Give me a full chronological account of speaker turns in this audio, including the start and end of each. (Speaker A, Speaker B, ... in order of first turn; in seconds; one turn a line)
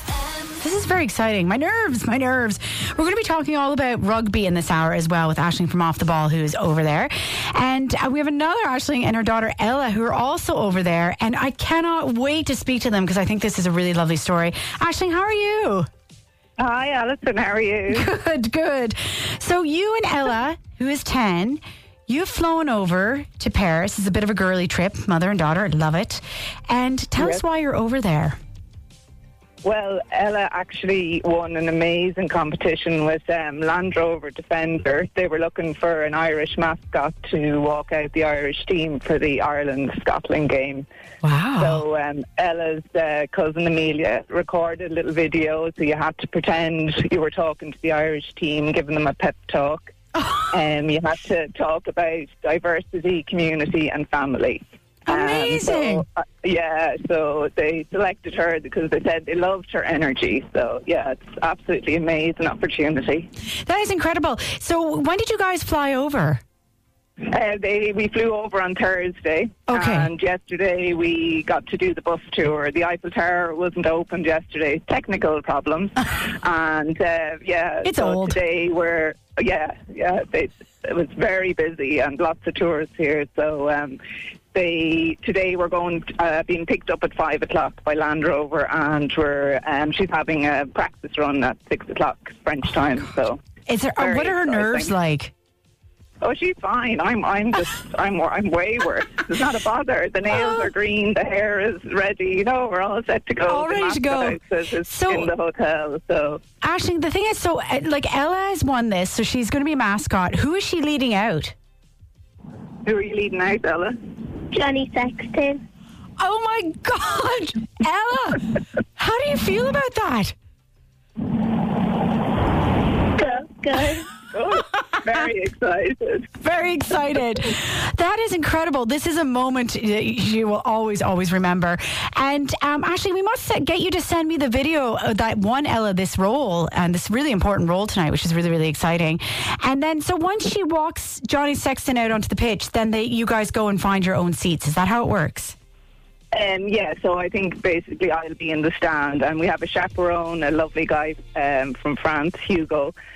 Speaker A: 0.6-15.9
Speaker B: 16.6-18.1
Speaker A: 17.9-28.4
Speaker B: 29.6-40.9
Speaker A: 41.2-41.8
Speaker B: 41.6-49.9
Speaker A: 50.1-50.5
Speaker B: 50.5-63.3
Speaker A: 55.1-56.0
Speaker A: 63.6-66.4
Speaker B: 67.2-84.0
Speaker A: 69.7-70.1
Speaker A: 77.8-78.4
Speaker B: 84.5-93.4
Speaker A: 93.7-95.3
Speaker B: 94.0-94.9
Speaker B: 96.2-106.4
Speaker A: 100.3-100.7
Speaker A: 103.5-105.3
Speaker A: 106.6-111.5
Speaker B: 112.8-114.0
Speaker C: 114.5-115.6
Speaker A: 116.2-120.3
Speaker C: 123.2-124.0
Speaker B: 124.2-126.3
Speaker A: 126.4-145.6
Speaker B: 146.3-152.9